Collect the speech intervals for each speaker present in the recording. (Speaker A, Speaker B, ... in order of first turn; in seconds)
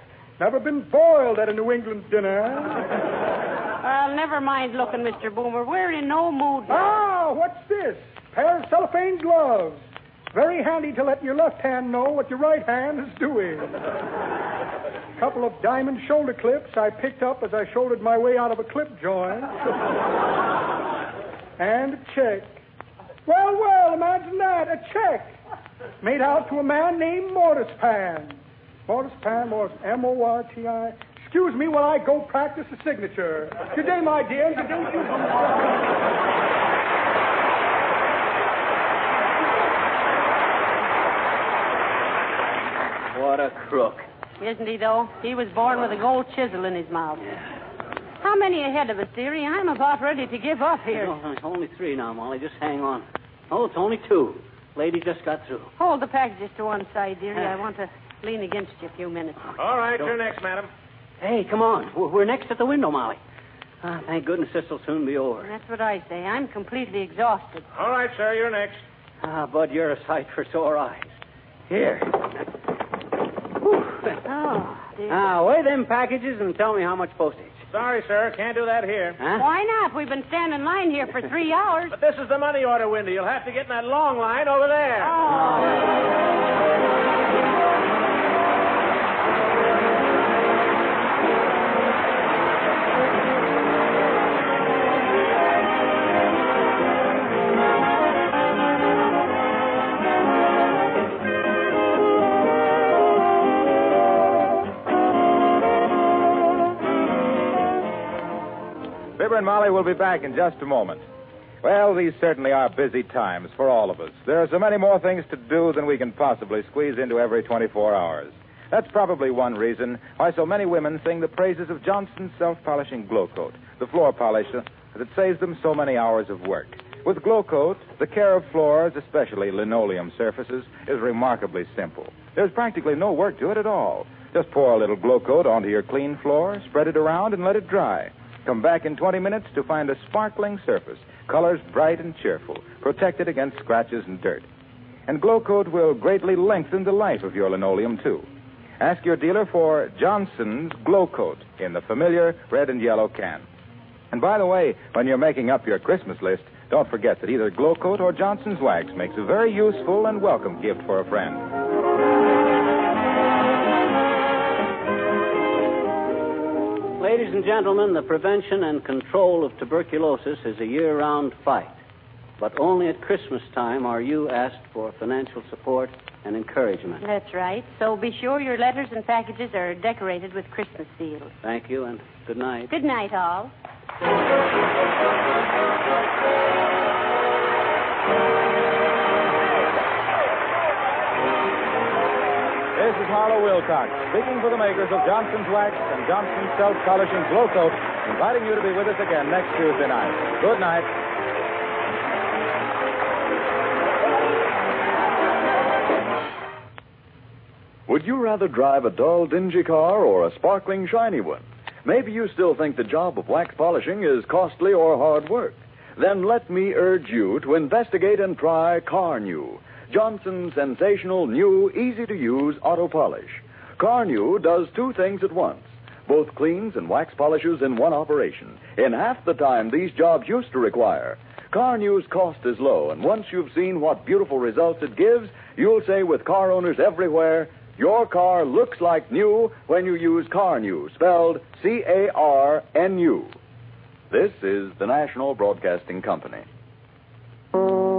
Speaker A: 0.4-2.9, 6.7-13.8, 15.2-19.6, 21.6-22.6, 23.3-25.4, 26.0-35.8
Speaker B: 3.8-6.9, 44.4-47.2, 48.2-51.2, 55.8-59.4, 65.4-67.7, 74.2-75.4, 79.4-82.0, 85.0-85.8, 177.0-181.3, 182.7-183.5
Speaker C: 43.1-44.1, 50.9-55.7, 61.2-63.2, 63.8-65.5, 69.2-71.1, 71.7-72.3, 73.6-74.2, 75.1-77.6, 79.2-79.5, 85.3-85.8, 167.0-171.8, 172.4-177.0, 181.4-182.7
Speaker D: 59.6-60.7, 67.8-68.8, 77.7-79.2, 81.9-85.2
Speaker E: 109.2-111.0, 111.6-144.5, 145.1-148.3, 148.8-153.5, 154.1-161.5, 192.8-200.9
Speaker F: 207.9-243.4, 244.1-246.5